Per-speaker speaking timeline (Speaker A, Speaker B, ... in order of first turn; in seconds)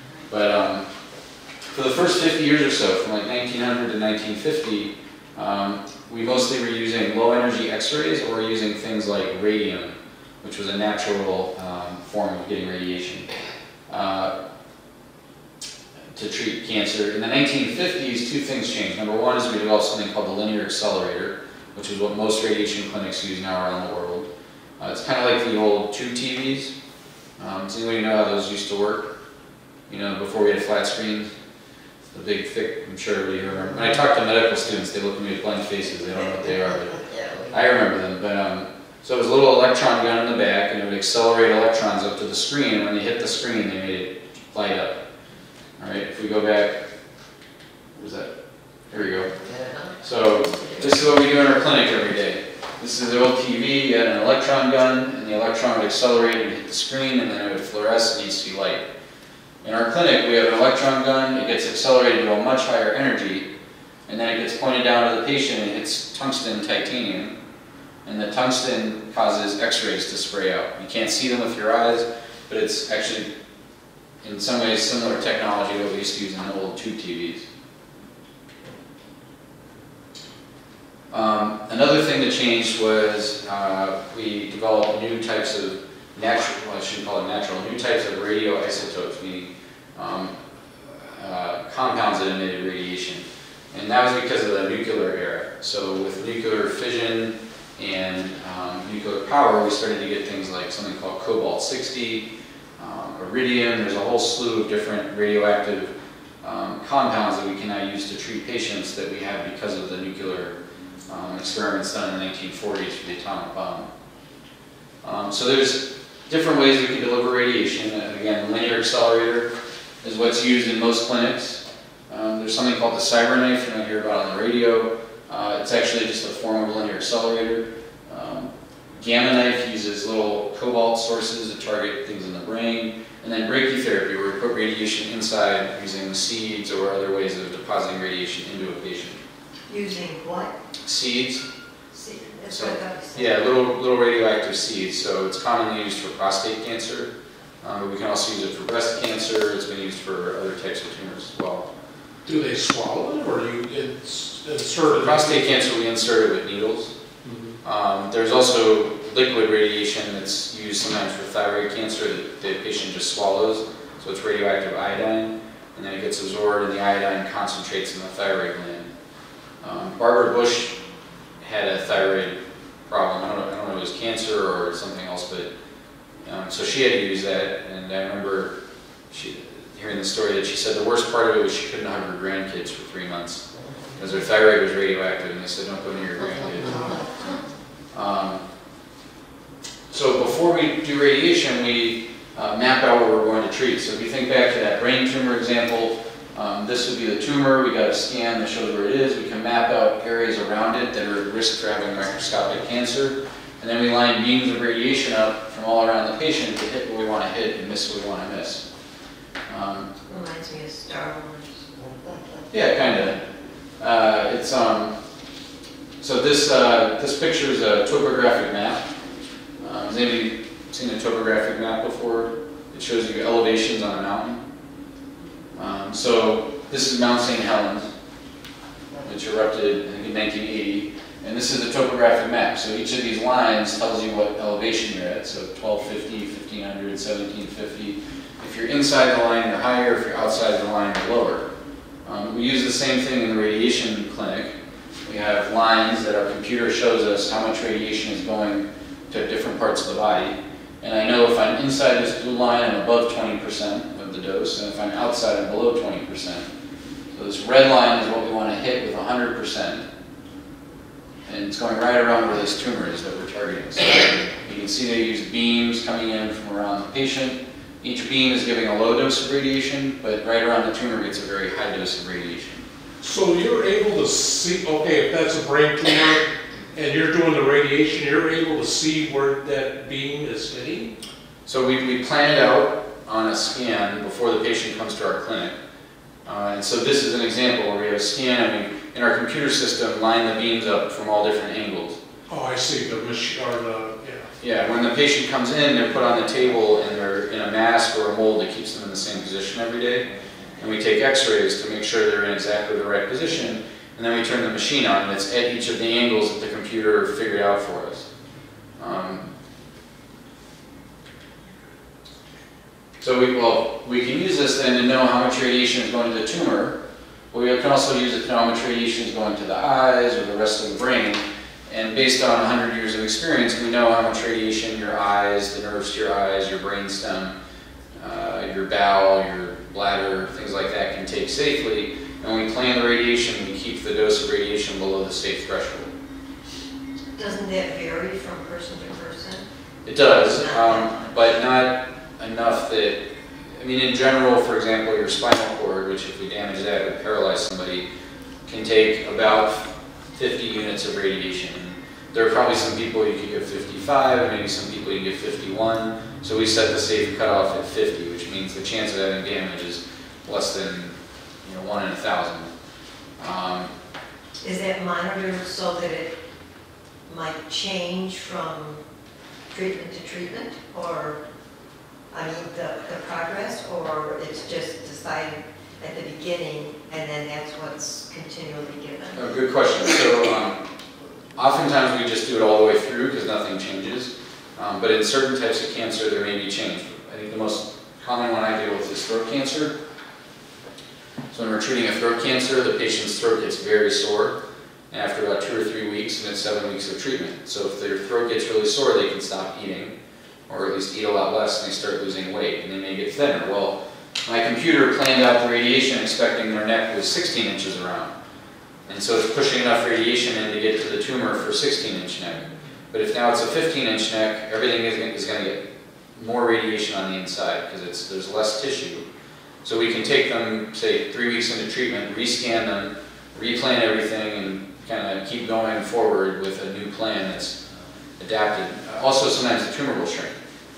Speaker A: 0.3-0.9, 1.7-13.3, 13.9-14.3, 16.1-24.3, 24.8-26.7, 27.4-29.1, 29.9-31.3, 32.1-45.0, 45.8-46.9, 48.0-48.3, 48.9-49.3, 50.0-58.9, 59.6-63.5, 64.1-67.3, 68.0-73.3, 74.2-77.5, 81.1-90.3, 91.0-102.3, 102.8-110.5, 111.1-113.9, 115.0-119.5, 120.0-139.2, 140.8-141.4, 142.5-147.1, 147.6-151.7, 154.9-156.9, 157.6-168.9, 169.6-170.8, 171.4-175.5, 176.2-178.5, 179.1-183.4, 184.0-187.1, 187.9-188.4, 189.9-208.6, 209.5-209.9, 212.5-213.2, 213.8-214.9, 216.0-218.8, 219.6-224.4, 225.6-227.9, 229.0-241.5, 242.1-244.5, 245.1-256.5, 257.1-259.9, 261.3-272.6, 281.5-285.6, 286.2-292.0, 294.4-300.1, 300.6-308.1, 308.8-309.3, 313.0-316.8, 317.3-327.3, 328.0-335.9, 339.9-347.9, 348.5-362.5, 363.2-363.7, 379.2-380.6, 381.4-389.7, 391.3-394.4, 394.9-400.0, 400.5-408.1, 408.9-419.0, 419.6-427.6, 428.2-430.4
Speaker B: 139.7-140.6, 141.9-143.3, 210.1-212.2, 337.2-339.5, 364.4-366.2, 367.1-368.8, 369.5-371.2, 372.1-379.2
Speaker C: 152.3-155.4, 157.2-157.6, 273.0-281.0, 292.3-294.3